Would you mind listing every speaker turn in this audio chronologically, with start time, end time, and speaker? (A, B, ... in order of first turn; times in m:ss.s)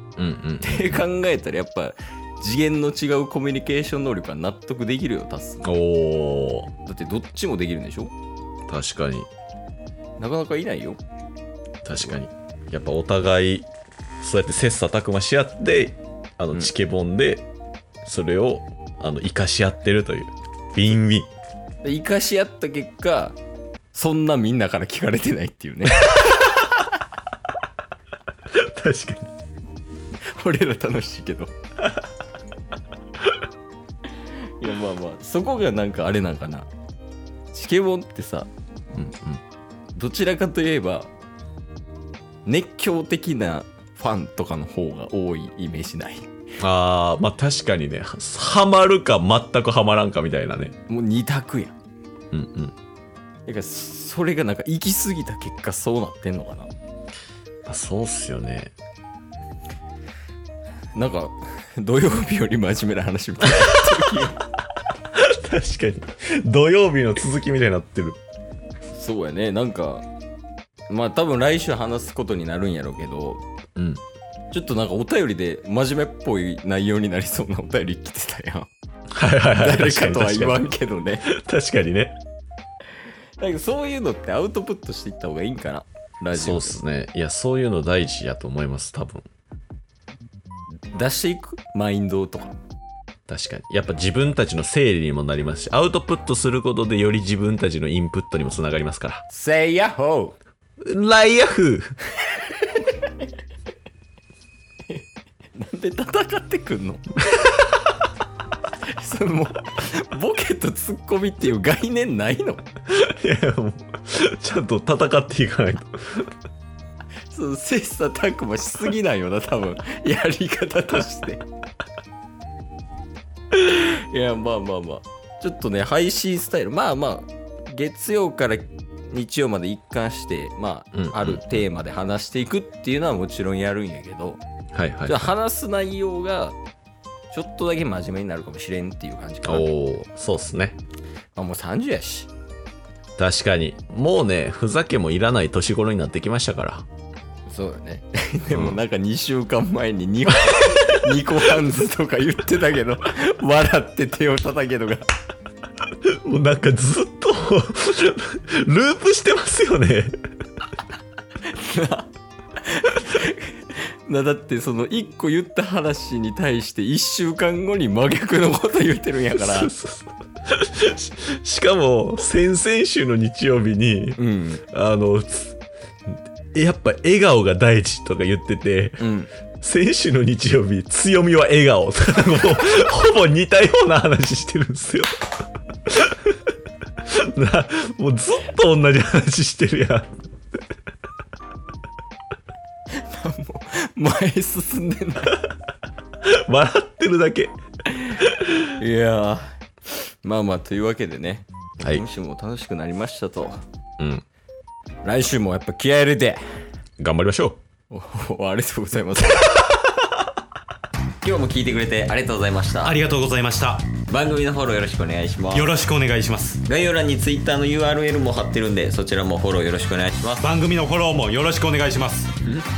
0:00.2-0:01.0 A
0:00.6-0:05.7 B
0:05.6-0:06.7 A
0:06.8-0:08.1 B
0:08.7-0:09.3 A
0:10.2-0:11.0 B
0:11.8-0:13.7 A
0:14.2-0:17.4 A
0:18.0-0:21.3 A
0:21.8-0:23.4 B
0:23.9-0:26.8 B
0:26.1-0:26.4 A
0:28.5-0:29.3 A
0:30.2-0:31.5 B
0:34.1-0:36.7 B
0:37.5-0:38.5 B
0:38.9-0:39.4 A
0:39.9-0:41.1 B
0:42.4-0:46.2 B
0:46.6-0:50.7 A
0:50.9-0:51.8 B
0:52.3-0:52.7 A
0:53.4-0:56.7 B
0:57.6-0:58.7 A
1:00.9-1:04.4 B
1:05.1-1:08.2 A
1:08.9-1:10.0 B
1:10.9-1:13.4 B
1:13.8-1:14.0 A
1:14.5-1:18.7 B
1:19.1-1:20.6 A
1:19.5-1:21.3 B
1:21.2-1:22.2 A
1:23.0-1:26.8 B
1:26.3-1:29.2 A
1:30.9-1:32.6 B
1:33.3-1:39.2 A
1:39.3-1:40.4 B
1:40.8-1:41.9 A
1:42.5-1:43.2 B
1:44.9-1:47.1 B
1:48.8-1:52.6 B
1:52.9-1:56.3 A
1:57.3-2:01.4 B
2:03.5-2:14.4 B
2:10.9-2:11.6 A
2:14.7-2:15.3 A
2:15.0-2:16.6 B
2:17.3-2:19.7 B
2:19.4-2:20.8 A
2:21.3-2:22.3 B
2:23.2-2:26.9 A
2:27.5-2:35.0 B
2:28.5-2:28.8 A
2:36.0-2:40.2 A
2:41.4-2:49.7 B
2:49.4-2:54.2 A
2:54.2-2:54.6 B
2:54.7-3:06.5 A
2:59.0-2:59.3 B
3:07.0-3:10.2 A
3:12.9-3:15.4 B
3:16.2-3:17.5 A
3:17.9-3:23.6 B
3:18.1-3:18.5 A
3:24.0-3:24.2 A
3:25.0-3:26.6 B
3:27.0-3:27.6 A
3:27.9-3:29.9 B
3:31.2-3:33.0 B
3:32.8-3:33.9 C
3:34.0-3:35.8 B
3:35.5-3:36.6 C
3:36.6-3:40.5 B
3:40.4-3:42.3 C